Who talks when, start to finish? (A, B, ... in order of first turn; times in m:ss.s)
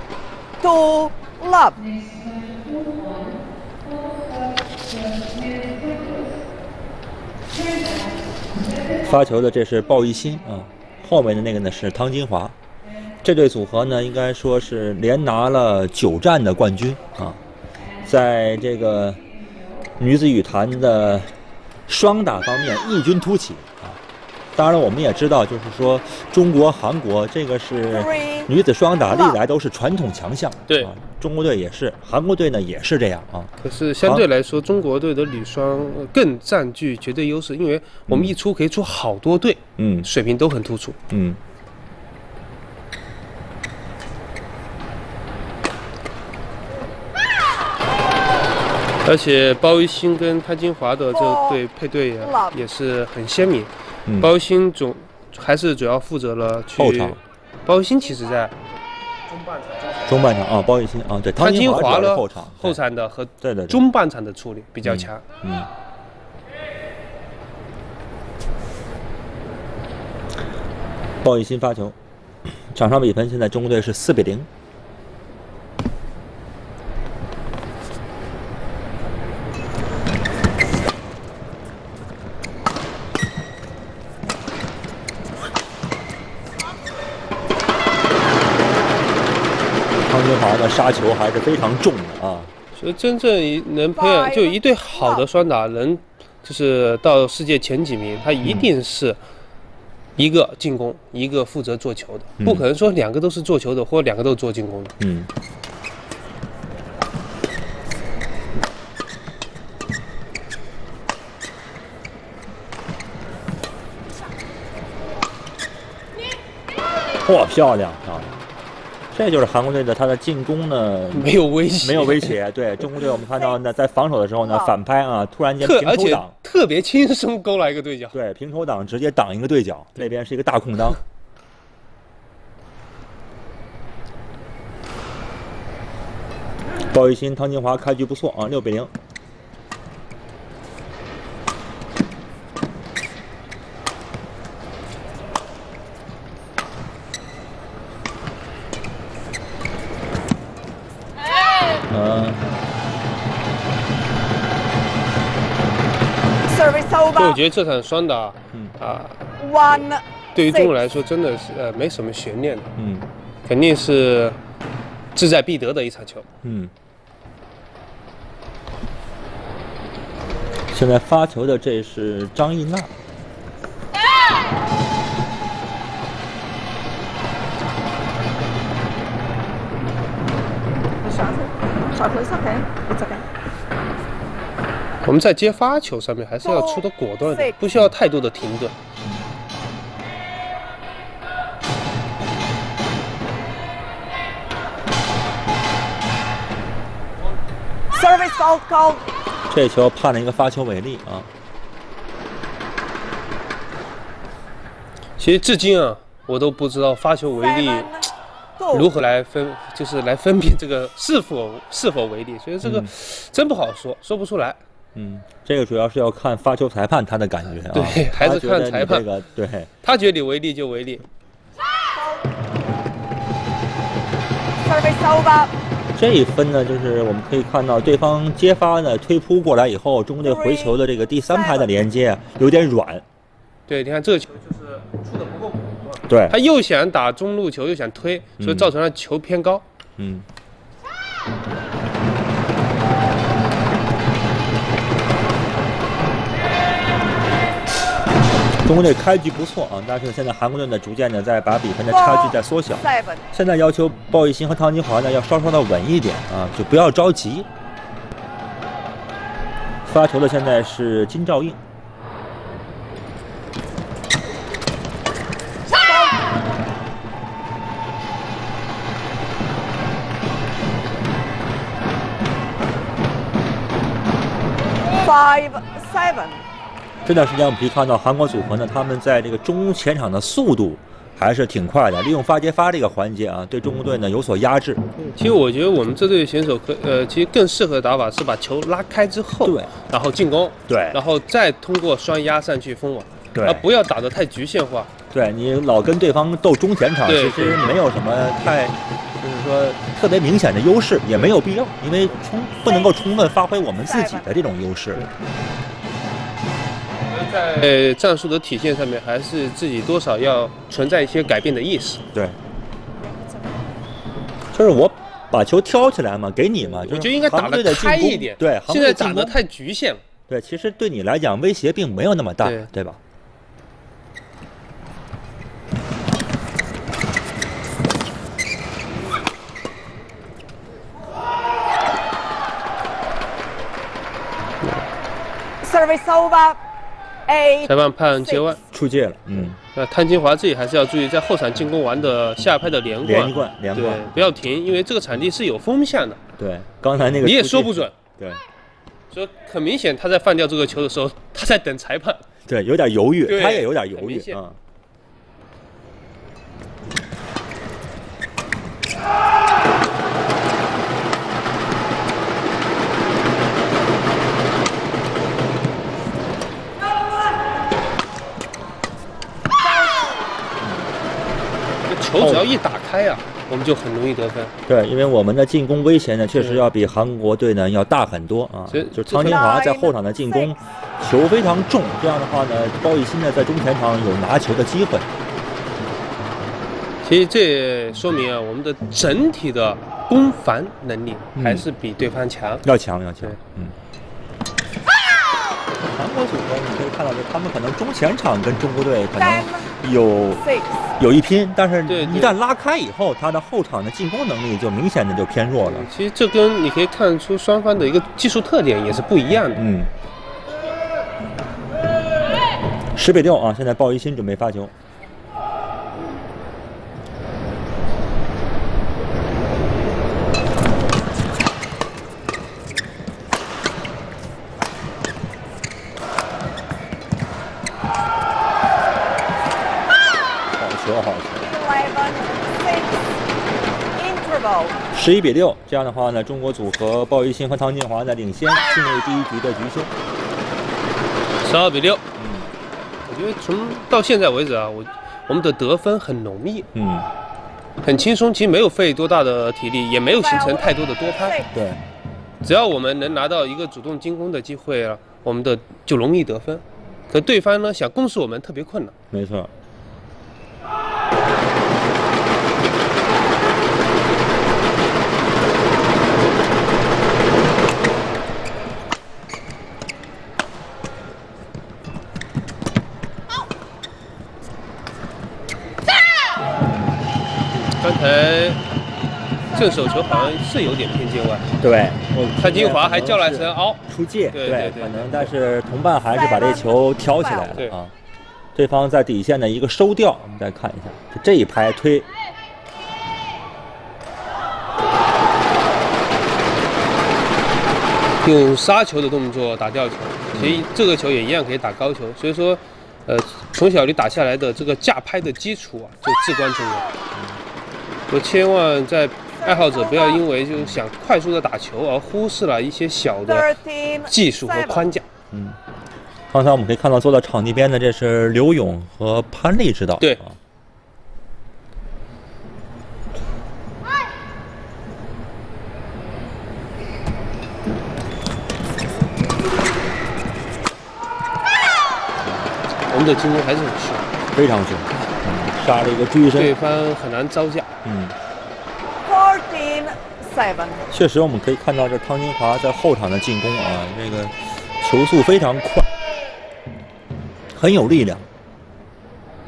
0:00.6-0:01.8 A
0:09.0-0:12.5 B
0:13.2-0:17.4 B
0:18.0-0:19.2 B
0:20.0-0:21.3 B
0:21.9-0:24.0 B
0:24.5-0:34.2 B
0:27.9-0:28.5 A
0:29.0-0:29.4 A
0:33.6-0:41.0 C
0:38.1-0:38.3 B
0:39.8-0:40.1 B
0:41.1-0:41.4 B
0:49.0-0:58.6 C
0:51.1-0:51.6 A
0:52.2-0:52.6 A
0:54.0-0:54.3 B
0:56.8-0:57.2 B
0:59.3-1:00.0 C
1:00.1-1:02.8 B
1:01.4-1:05.2 C
1:03.4-1:03.8 B
1:04.8-1:05.7 B
1:11.2-1:12.0 B
1:12.7-1:14.5 B
1:30.1-1:32.5 B
1:32.8-1:39.2 C
1:33.9-1:35.2 A
1:40.2-1:44.9 C
1:42.4-1:42.6 B
1:45.0-1:45.3 B
1:57.2-1:58.3 B
1:59.1-2:01.3 B
2:01.1-2:02.4 C
2:01.8-2:06.3 B
2:04.4-2:04.7 A
2:05.6-2:08.2 C
2:08.1-2:11.0 B
2:16.9-2:18.9 B
2:31.9-2:32.4 B
2:36.5-2:37.4 A
2:37.2-2:39.2 C
2:39.4-2:40.7 A
2:40.3-2:42.7 C
2:42.8-2:43.1 B
2:43.4-2:44.4 C
2:45.1-2:46.3 C
2:46.4-2:46.7 B
2:50.7-2:52.9 B
3:01.1-3:01.4 A
3:02.0-3:03.2 A
3:05.0-3:08.7 C
3:06.4-3:07.6 A
3:17.9-3:19.0 A
3:19.5-3:21.3 B
3:25.2-3:27.9 C
3:27.4-3:28.9 A
3:28.7-3:34.6 C
3:32.6-3:32.9 B
3:34.9-3:39.7 B
3:37.7-3:39.0 C
3:39.8-3:41.0 C
3:41.9-3:42.3 A
3:44.6-3:45.5 A
3:45.9-3:53.0 B
3:50.2-3:50.8 A
3:51.3-3:51.7 A
3:53.7-3:59.6 C
3:56.1-3:56.4 B
3:58.4-3:58.7 B
4:00.0-4:00.2 B
4:08.6-4:17.5 B
4:11.9-4:13.2 A
4:19.8-4:21.6 B
4:25.8-4:26.1 A
4:35.0-4:36.4 A
4:37.0-4:44.8 B
4:45.0-4:54.9 C
4:49.4-4:49.7 B
4:50.7-4:51.0 B
4:53.3-4:53.6 B
4:55.1-5:05.1 B
4:57.0-4:57.8 C
5:03.8-5:04.3 A
5:07.1-5:12.0 C
5:14.5-5:19.4 B
5:16.6-5:20.0 C
5:20.3-5:23.0 B
5:22.4-5:22.7 C
5:35.6-5:36.6 A
5:37.3-5:38.5 A
5:37.6-5:38.6 C
5:38.7-5:39.6 B
5:39.6-5:46.2 C
5:43.0-5:44.0 B
5:46.4-5:48.4 B
5:47.2-5:48.0 C
5:49.1-5:52.2 C
5:52.5-5:54.6 B
5:53.2-5:54.4 C
6:09.6-6:10.1 A
6:10.6-6:10.9 B
6:11.9-6:14.5 C
6:12.2-6:12.5 B
6:14.7-6:25.1 B
6:16.4-6:16.6 C
6:18.7-6:19.5 C
6:19.1-6:20.5 A
6:27.0-6:32.6 C
6:31.3-6:31.6 B
6:32.6-6:33.7 B
6:35.9-6:45.9 B
6:39.2-6:39.7 A
6:40.4-6:40.8 A
6:41.9-6:42.4 C
6:45.6-6:49.6 C
6:49.6-6:49.9 B
6:52.9-6:54.7 B
7:10.6-7:11.5 B
7:11.4-7:13.2 A
7:13.9-7:14.8 A
7:14.9-7:19.9 B
7:21.4-7:22.0 C
7:22.2-7:22.5 B
7:23.0-7:26.7 C
7:26.7-7:27.1 B
7:27.8-7:31.4 C
7:30.0-7:31.5 A
7:31.5-7:31.8 B
7:32.4-7:38.9 C
7:39.1-7:39.5 B
7:57.7-7:58.6 C
7:59.5-8:00.4 A
7:59.5-8:01.5 C
8:01.6-8:07.9 B
8:02.4-8:05.3 C
8:06.1-8:07.6 A
8:08.5-8:12.1 B
8:18.2-8:26.9 C
8:20.3-8:20.6 B
8:28.1-8:33.5 C
8:29.4-8:30.2 A
8:33.3-8:34.9 A
8:34.1-8:35.0 C
8:35.3-8:35.6 B
8:36.3-8:40.4 B
8:52.9-8:54.1 C
8:54.3-8:56.5 B
8:56.3-8:57.7 C
8:57.8-8:58.1 B
8:59.0-9:00.8 A
9:00.9-9:05.9 B
9:07.5-9:08.3 B